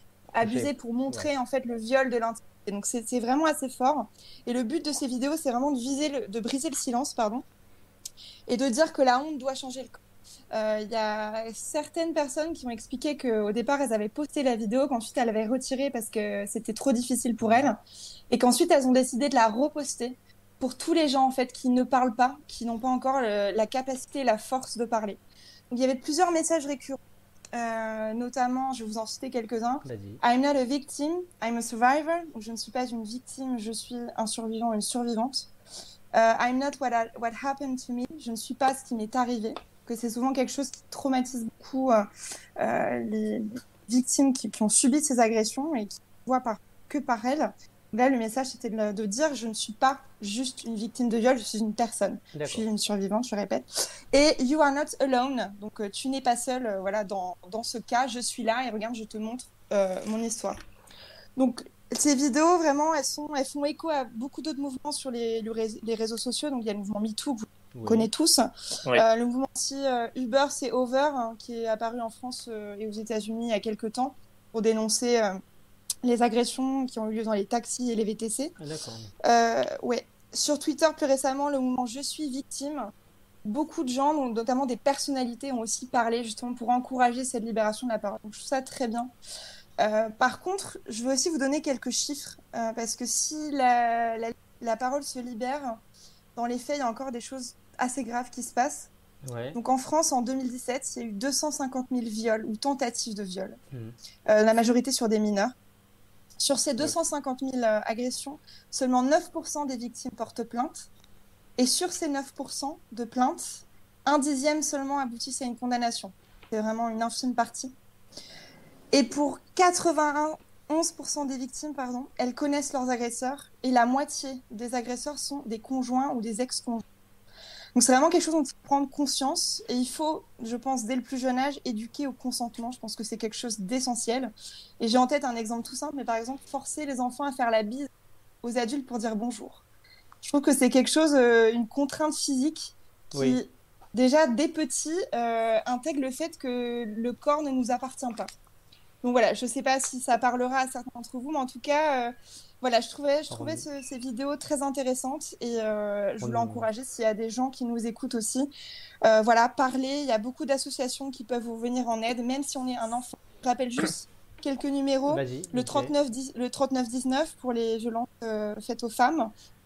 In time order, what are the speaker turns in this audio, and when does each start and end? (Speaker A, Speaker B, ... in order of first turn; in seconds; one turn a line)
Speaker A: 0.3-7.5
Speaker B: 0.4-1.3
Speaker A: 8.5-10.0
Speaker A: 10.5-17.8
Speaker B: 17.4-17.7
Speaker A: 18.3-27.0
Speaker A: 27.5-35.5
Speaker B: 29.9-30.2
Speaker A: 36.1-42.1
Speaker A: 42.6-60.6
Speaker B: 52.3-52.7
Speaker A: 61.4-75.4
Speaker B: 67.7-68.1
Speaker A: 76.0-78.5
Speaker B: 78.6-79.1
Speaker A: 79.2-82.9
Speaker A: 83.5-89.1
Speaker A: 89.8-95.8
Speaker A: 96.4-98.9
Speaker B: 99.2-99.6
Speaker A: 99.5-103.6
Speaker A: 104.3-105.5
Speaker A: 106.4-110.9
Speaker A: 111.6-117.7
Speaker A: 118.9-126.8
Speaker A: 127.7-137.9
Speaker A: 138.4-139.6
Speaker A: 140.2-148.3
Speaker B: 143.1-143.4
Speaker A: 149.0-158.5
Speaker B: 153.3-153.7
Speaker B: 156.2-156.7
Speaker A: 159.0-169.3
Speaker B: 165.1-165.9